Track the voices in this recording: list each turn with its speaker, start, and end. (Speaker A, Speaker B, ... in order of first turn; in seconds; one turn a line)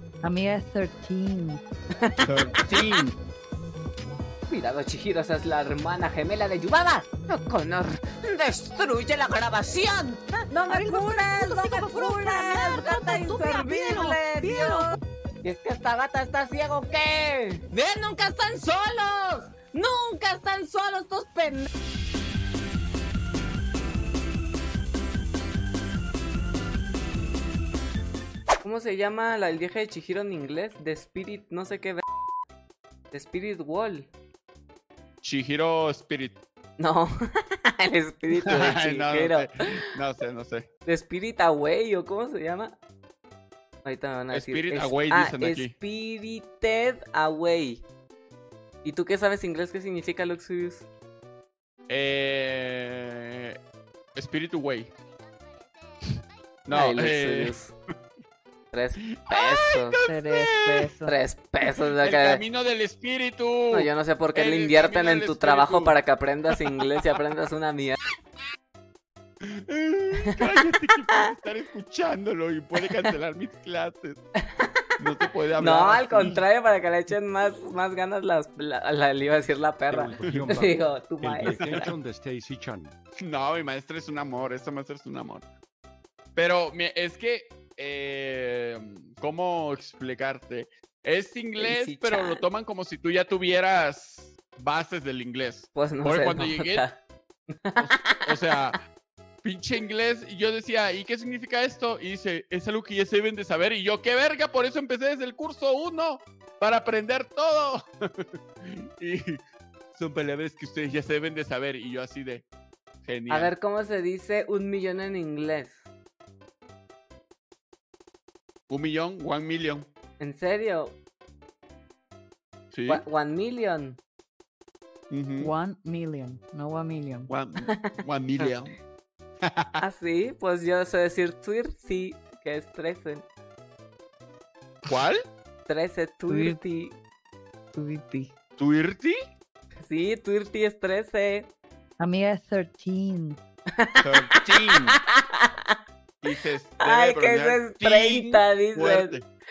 Speaker A: 0.2-1.6
Speaker B: 1.9-3.0
Speaker C: 2.2-3.1
Speaker B: 4.5-21.7
Speaker A: 10.7-14.9
Speaker B: 28.6-32.0
Speaker B: 33.1-34.1
Speaker C: 35.2-36.4
Speaker B: 36.8-39.5
Speaker C: 38.3-40.7
Speaker B: 40.8-42.8
Speaker B: 43.8-47.8
Speaker C: 44.3-45.7
Speaker B: 48.8-50.9
Speaker C: 51.9-53.6
Speaker C: 54.1-54.9
Speaker C: 56.7-57.6
Speaker B: 56.7-57.7
Speaker B: 58.7-60.0
Speaker C: 59.1-60.9
Speaker A: 60.0-61.2
Speaker B: 61.0-62.4
Speaker C: 62.0-65.9
Speaker B: 63.7-68.0
Speaker C: 69.4-74.2
Speaker C: 75.0-76.4
Speaker B: 75.6-81.9
Speaker D: 79.9-82.9
Speaker C: 80.2-80.5
Speaker C: 81.5-81.9
Speaker C: 83.2-85.4
Speaker C: 86.3-96.8
Speaker B: 91.6-92.4
Speaker B: 95.7-97.0
Speaker B: 97.5-98.7
Speaker C: 97.8-98.8
Speaker C: 99.4-109.4
Speaker C: 109.9-112.4
Speaker C: 113.0-113.5
Speaker B: 113.3-115.8
Speaker C: 118.7-119.9
Speaker B: 120.2-121.0
Speaker C: 122.7-123.0
Speaker B: 122.9-124.0
Speaker C: 125.1-125.5
Speaker A: 125.4-127.3
Speaker C: 127.3-128.8
Speaker B: 127.7-128.5
Speaker C: 129.4-129.7
Speaker B: 129.8-133.2
Speaker C: 134.9-135.2
Speaker B: 135.7-136.9
Speaker A: 136.3-136.6
Speaker A: 137.7-138.3
Speaker C: 138.6-139.2
Speaker B: 139.8-141.5
Speaker A: 142.0-143.4
Speaker B: 143.7-145.8
Speaker C: 144.0-145.0
Speaker C: 146.2-149.2
Speaker B: 146.8-149.2